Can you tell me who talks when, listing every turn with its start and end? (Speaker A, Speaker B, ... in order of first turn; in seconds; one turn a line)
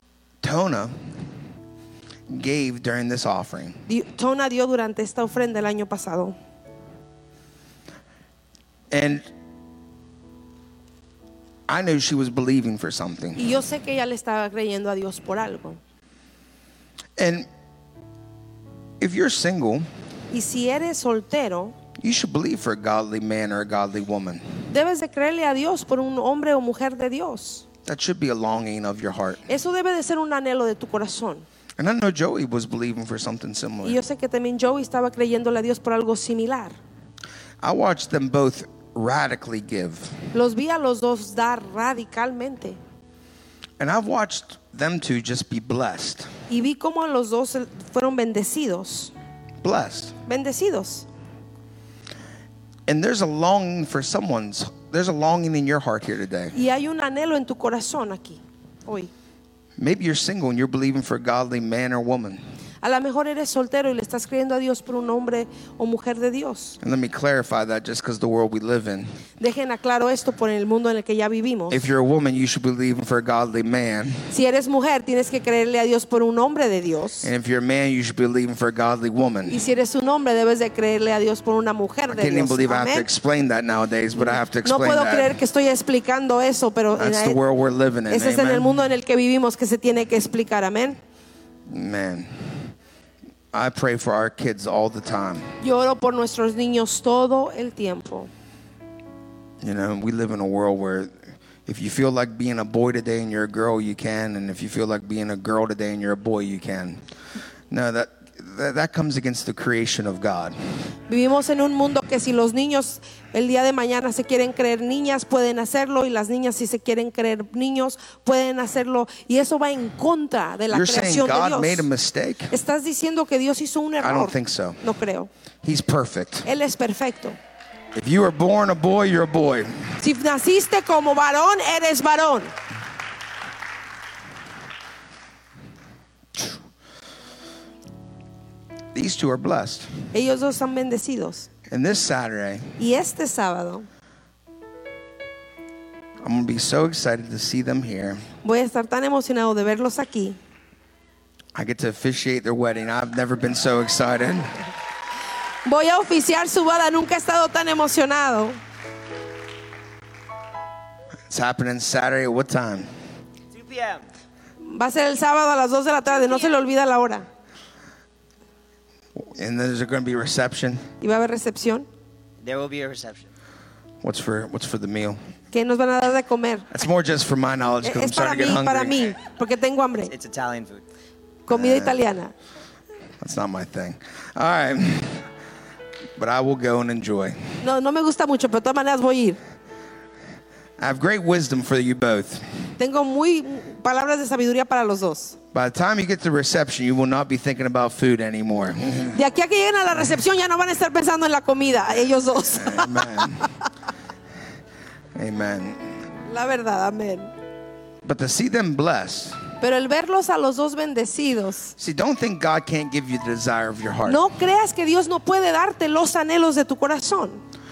Speaker A: 0.4-0.9
Speaker A: 2.3-3.8
Speaker B: 3.9-6.4
Speaker A: 8.9-9.3
Speaker A: 11.7-13.4
Speaker B: 13.4-15.8
Speaker A: 17.2-17.5
Speaker A: 19.0-19.9
Speaker B: 20.3-21.8
Speaker A: 22.0-24.4
Speaker B: 24.7-27.6
Speaker A: 27.9-29.4
Speaker B: 29.5-31.5
Speaker A: 31.8-34.0
Speaker B: 33.8-36.8
Speaker A: 37.6-40.1
Speaker B: 40.3-42.8
Speaker A: 43.8-46.3
Speaker B: 46.5-49.1
Speaker A: 49.6-50.1
Speaker B: 50.3-51.1
Speaker A: 52.9-56.6
Speaker B: 56.5-59.1
Speaker A: 59.8-62.4
Speaker B: 62.8-66.8
Speaker A: 66.8-69.1
Speaker B: 69.4-71.8
Speaker A: 71.7-74.2
Speaker B: 74.3-77.3
Speaker A: 77.2-79.6
Speaker B: 79.5-83.1
Speaker A: 82.1-85.4
Speaker B: 84.2-87.4
Speaker A: 87.0-88.8
Speaker B: 88.1-91.0
Speaker A: 91.7-92.5
Speaker A: 93.5-95.5
Speaker B: 95.6-98.3
Speaker A: 99.6-101.1
Speaker A: 101.7-107.0
Speaker A: 107.7-110.6
Speaker B: 111.1-121.9
Speaker A: 120.7-122.5
Speaker B: 122.5-125.3
Speaker A: 124.0-124.8
Speaker A: 125.6-126.5
Speaker B: 126.5-127.4
Speaker A: 128.0-129.8
Speaker B: 130.0-132.5
Speaker A: 138.9-139.9
Speaker B: 140.1-141.5
Speaker A: 141.7-142.8
Speaker B: 142.8-143.9
Speaker A: 146.2-148.2
Speaker B: 148.4-150.4
Speaker A: 151.6-154.6
Speaker B: 155.7-158.6
Speaker A: 161.3-162.9
Speaker C: 163.5-164.1
Speaker B: 164.6-167.3
Speaker A: 169.2-170.9
Speaker B: 171.0-171.9
Speaker C: 172.4-173.3
Speaker A: 174.0-175.2
Speaker B: 175.5-176.7
Speaker A: 176.7-179.2
Speaker B: 177.8-180.1
Speaker C: 180.1-180.8
Speaker B: 181.5-182.3
Speaker A: 181.5-182.0
Speaker A: 183.2-185.2
Speaker A: 186.2-187.4
Speaker B: 187.6-189.4
Speaker A: 190.8-192.5
Speaker B: 192.8-195.4
Speaker A: 195.5-199.2
Speaker B: 199.1-203.5
Speaker A: 202.5-203.5
Speaker A: 205.2-205.9
Speaker B: 206.3-207.3
Speaker A: 208.0-209.4
Speaker B: 209.6-211.8
Speaker A: 211.8-214.2
Speaker B: 214.1-217.4